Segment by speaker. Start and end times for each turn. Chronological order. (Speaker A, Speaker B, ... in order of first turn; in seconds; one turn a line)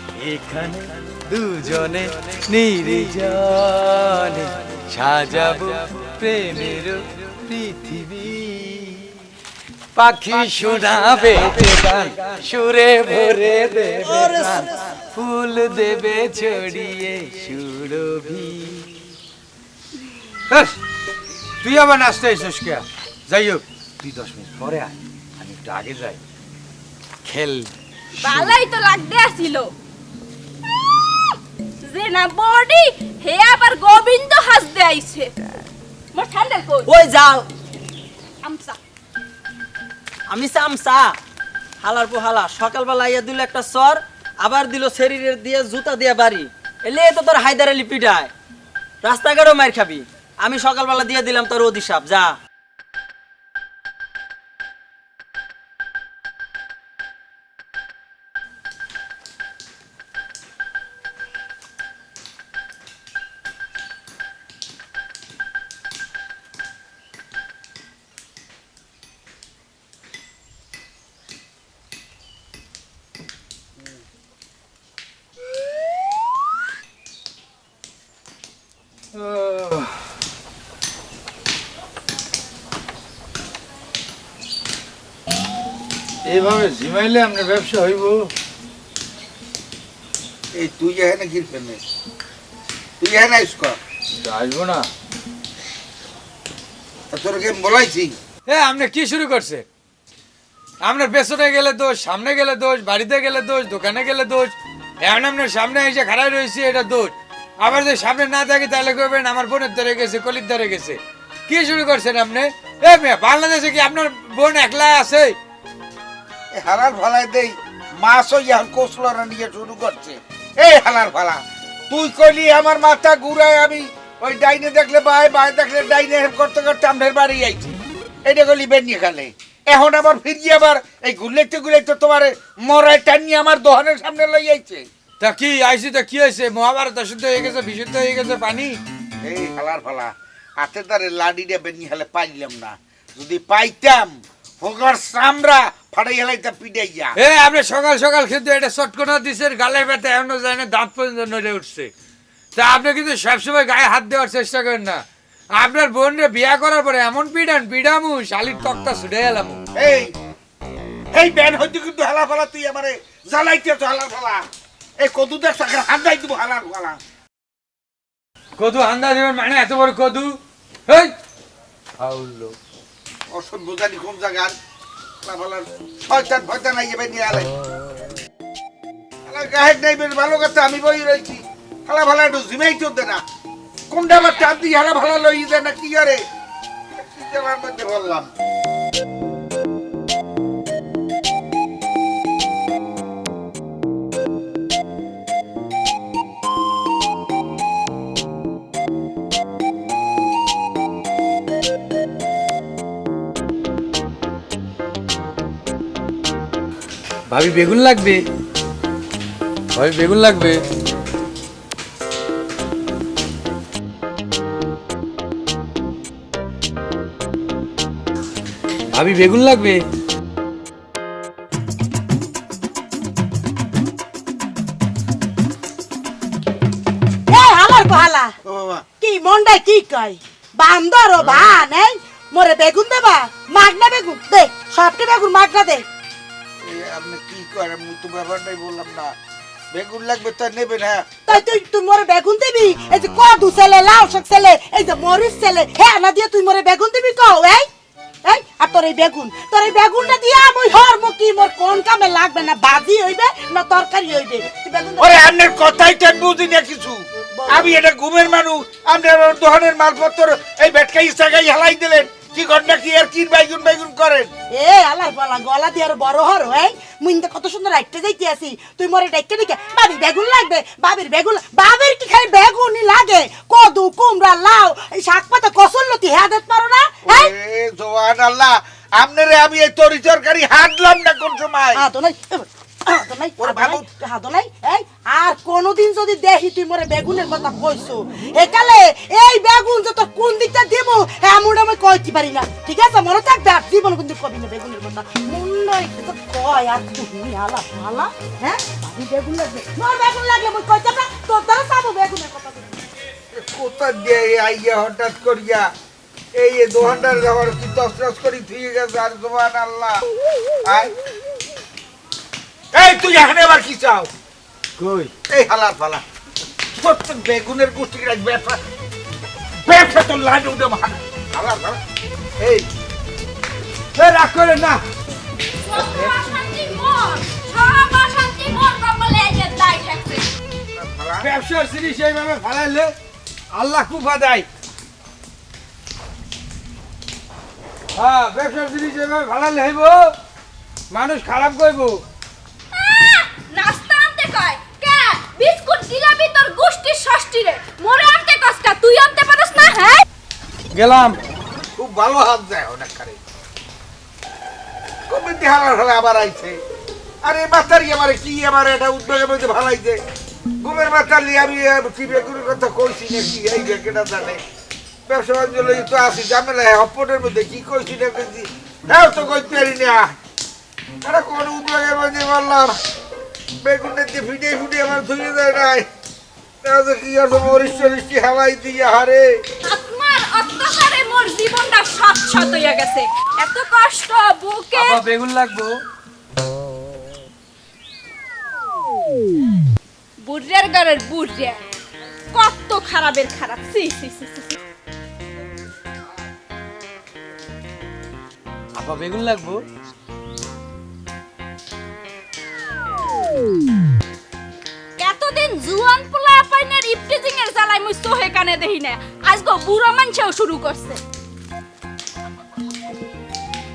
Speaker A: 0.1-9.1
Speaker A: 9.9-18.9
Speaker B: 14.1-14.9
Speaker A: 20.5-20.8
Speaker A: 21.6-26.2
Speaker A: 27.2-28.6
Speaker C: 28.2-29.7
Speaker C: 31.8-35.3
Speaker C: 36.1-36.9
Speaker B: 36.9-37.5
Speaker C: 38.4-38.8
Speaker B: 40.3-41.1
Speaker B: 41.8-48.3
Speaker B: 49.0-52.4
Speaker A: 79.1-80.0
Speaker A: 86.3-88.2
Speaker D: 90.5-91.8
Speaker D: 93.0-93.8
Speaker A: 94.2-94.9
Speaker D: 97.1-98.1
Speaker A: 98.5-99.6
Speaker A: 100.8-115.3
Speaker D: 116.5-134.9
Speaker A: 135.2-138.8
Speaker D: 139.2-147.1
Speaker A: 147.2-151.9
Speaker A: 152.6-155.0
Speaker A: 155.6-159.6
Speaker D: 159.8-160.1
Speaker D: 161.1-164.4
Speaker D: 165.0-167.0
Speaker A: 168.6-171.1
Speaker A: 172.0-172.5
Speaker D: 173.3-174.5
Speaker D: 175.2-177.5
Speaker D: 179.2-183.2
Speaker D: 183.9-186.2
Speaker D: 186.9-188.3
Speaker A: 207.3-208.2
Speaker A: 209.7-210.6
Speaker A: 218.9-219.8
Speaker E: 227.3-228.3
Speaker D: 228.4-228.8
Speaker E: 229.0-235.8
Speaker D: 231.2-231.6
Speaker D: 236.6-239.1
Speaker D: 239.7-241.4
Speaker E: 241.3-247.7
Speaker E: 248.2-255.2
Speaker D: 255.0-264.3
Speaker E: 257.3-257.7
Speaker E: 264.5-277.3
Speaker D: 277.1-281.8
Speaker E: 281.7-302.7
Speaker D: 283.4-283.9
Speaker D: 303.3-305.7
Speaker D: 306.4-310.1
Speaker D: 310.6-310.9
Speaker D: 312.7-314.1
Speaker A: 314.8-315.1
Speaker D: 315.3-316.0
Speaker D: 316.8-318.6
Speaker D: 319.6-321.8
Speaker D: 322.4-322.6
Speaker A: 323.9-324.8
Speaker C: 325.6-330.3
Speaker D: 330.7-331.3
Speaker A: 331.2-332.9
Speaker A: 333.5-334.4
Speaker A: 337.9-340.1
Speaker A: 340.9-342.0
Speaker C: 342.7-350.0
Speaker A: 350.7-351.2
Speaker D: 351.8-353.2
Speaker D: 355.1-356.6
Speaker D: 357.2-360.0
Speaker D: 360.6-364.4
Speaker D: 365.1-370.1
Speaker D: 371.0-372.8
Speaker D: 373.6-375.9
Speaker D: 376.6-379.3
Speaker C: 379.6-385.0
Speaker A: 384.7-385.7
Speaker C: 390.2-391.6
Speaker C: 392.3-394.6
Speaker A: 398.7-399.6
Speaker C: 405.0-411.0